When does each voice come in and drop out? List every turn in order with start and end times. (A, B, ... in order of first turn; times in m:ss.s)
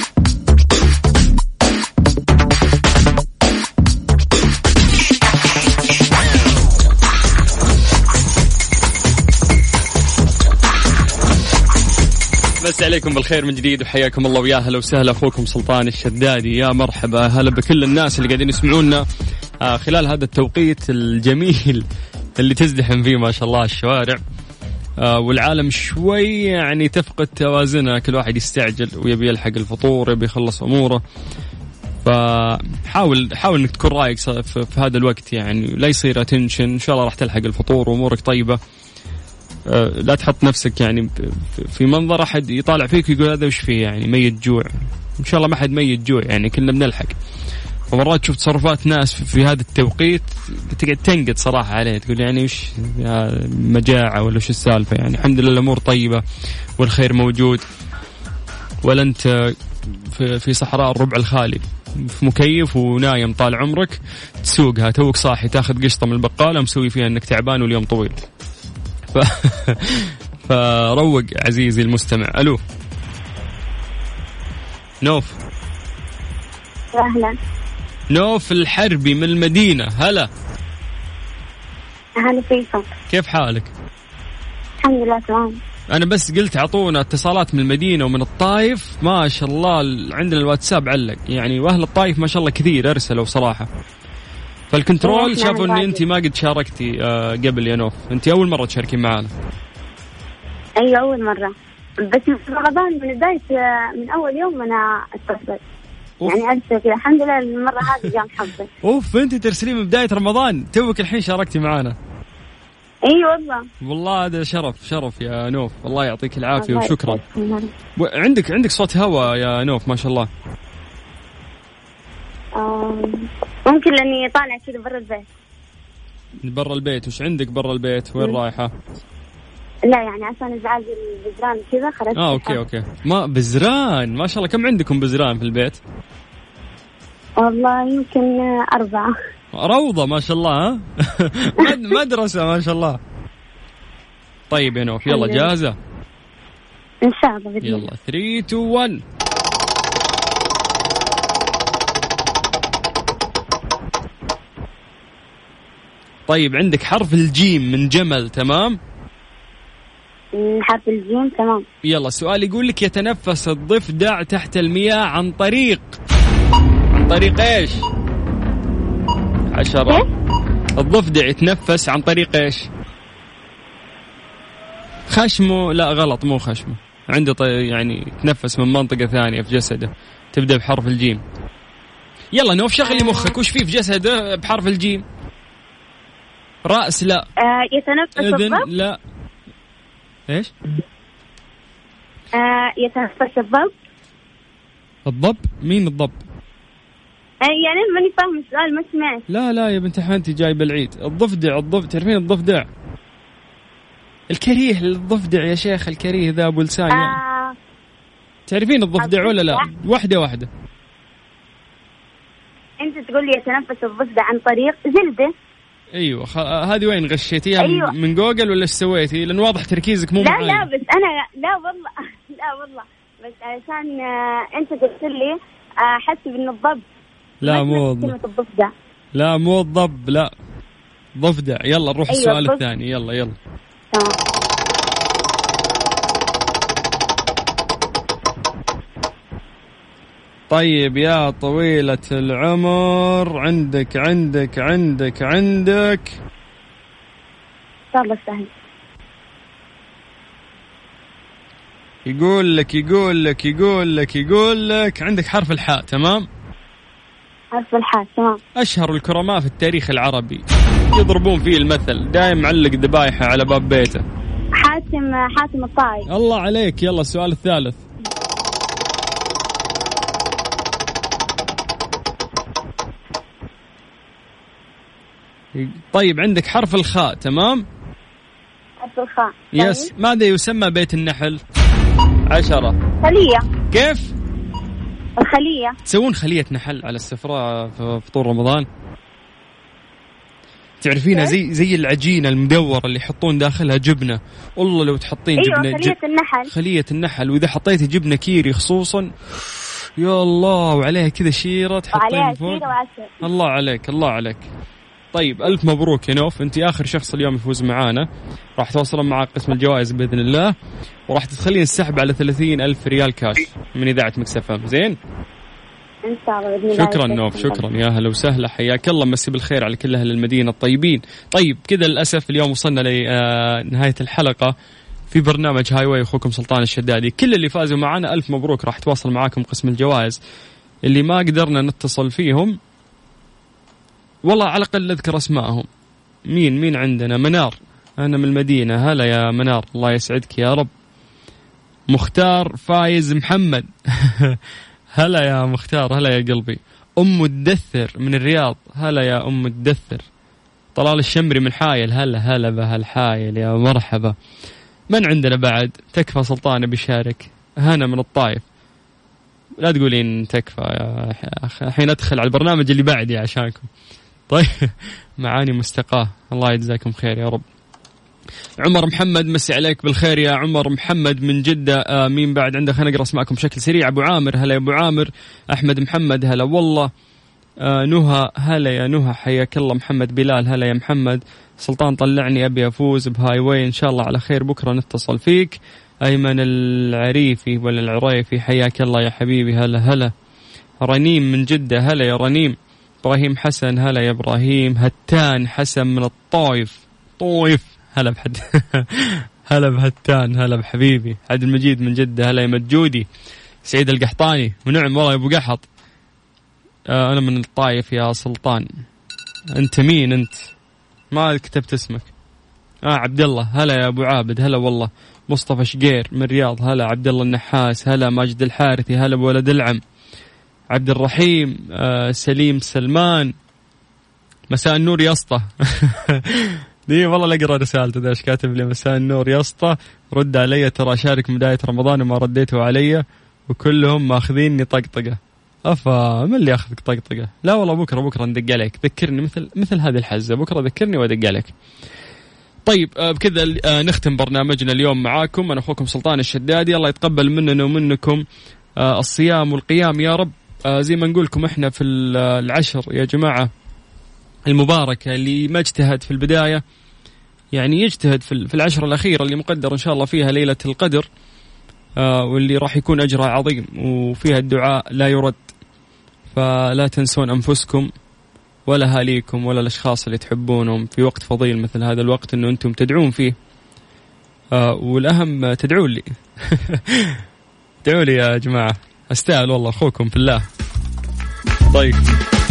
0:12.6-0:19.0 A
0:19.6-0:21.8 A
0:22.4-0:24.2 A
0:25.0-0:31.0 A
0:32.0-0:38.6 A
0:39.7-0:47.1 A
0:47.9-0:56.2 A
0:56.8-0:57.6 A
0:58.8-1:08.2 A
1:09.1-1:12.6 A
1:15.0-1:15.3 A
1:16.9-1:17.3 B
1:18.1-1:20.3 A
1:22.2-1:22.9 B
1:23.1-1:23.7 A
1:24.8-1:25.6 B
1:25.9-1:33.7 A
1:34.7-1:39.3 A
1:35.0-1:36.0 B
1:40.8-1:41.5 B
1:42.0-1:45.6 B
1:46.2-1:48.7 B
1:48.8-1:52.0 A
1:53.0-1:53.6 B
1:53.8-1:57.2 A
1:56.6-1:57.7 B
1:58.0-2:00.3 A
2:02.6-2:05.3 B
2:06.4-2:08.7 A
2:09.9-2:12.6 B
2:12.1-2:15.8 A
2:17.4-2:19.1 B
2:19.5-2:23.0 A
2:24.5-2:25.8 A
2:25.0-2:25.5 B
2:27.0-2:27.9 B
2:27.6-2:29.0 A
2:36.3-2:38.8 A
2:40.4-2:41.6 B
2:41.8-2:46.0 A
2:46.9-2:47.9 A
2:49.5-2:50.0 A
2:50.8-2:52.7 A
2:55.1-3:01.2 A
3:02.3-3:05.0 A
3:02.9-3:03.3 B
3:06.6-3:07.2 A
3:07.4-3:08.6 B
3:08.2-3:09.0 A
3:12.4-3:13.7 B
3:15.1-3:16.2 A
3:17.4-3:19.2 B
3:19.3-3:22.7 A
3:24.3-3:27.2 A
3:26.9-3:27.5 B
3:28.5-3:30.5 A
3:29.0-3:29.6 B
3:32.8-3:35.3 B
3:35.9-3:40.7 A
3:37.6-3:37.9 B
3:40.2-3:44.0 B
3:44.5-3:46.8 B
3:47.4-3:48.2 A
3:47.4-3:48.7 B
3:49.1-3:50.3 A
3:51.2-3:53.3 A
3:52.1-3:52.6 B
4:00.5-4:06.2 A
4:07.9-4:08.5 B
4:12.0-4:16.2 A
4:17.5-4:18.4 B
4:18.6-4:24.0 A
4:24.6-4:26.0 B
4:26.1-4:27.8 A
4:35.5-4:37.6 A
4:38.8-4:39.9 B
4:39.5-4:41.4 A
4:42.3-4:42.8 A
4:43.0-4:43.5 B
4:43.7-4:44.1 A
4:45.2-4:45.7 B
4:45.8-4:48.6 A
4:50.8-4:56.0 A
4:55.4-4:56.5 B
4:56.5-4:59.1 A
5:00.0-5:02.7 A
5:01.9-5:03.1 B
5:03.2-5:04.4 A
5:05.1-5:10.5 A
5:11.1-5:15.0 A
5:16.1-5:17.6 B
5:16.7-5:24.5 A
5:25.1-5:30.2 A
5:30.8-5:32.6 A
5:34.2-5:35.7 A
5:36.3-5:40.7 A
5:41.9-5:44.4 A
5:45.0-5:50.0 A
5:50.7-5:54.1 A
5:54.9-5:58.4 A
5:59.6-6:03.7 A
6:04.3-6:07.4 A
6:08.6-6:16.9 A
6:17.6-6:30.1 A
6:30.8-6:43.0 A
6:43.6-6:45.6 A
6:46.9-6:48.7 A
6:49.5-6:50.5 A
6:51.1-6:52.1 A
6:52.8-6:59.8 A
7:00.7-7:03.3 A
7:04.5-7:21.5 A
7:22.7-7:28.2 A
7:28.8-7:33.5 A
7:34.4-7:36.6 A
7:37.5-7:41.0 A
7:42.0-7:45.4 A
7:46.3-7:47.9 A
7:48.7-7:53.3 A
7:54.5-7:57.2 A
7:57.8-8:00.4 A
8:01.7-8:02.1 A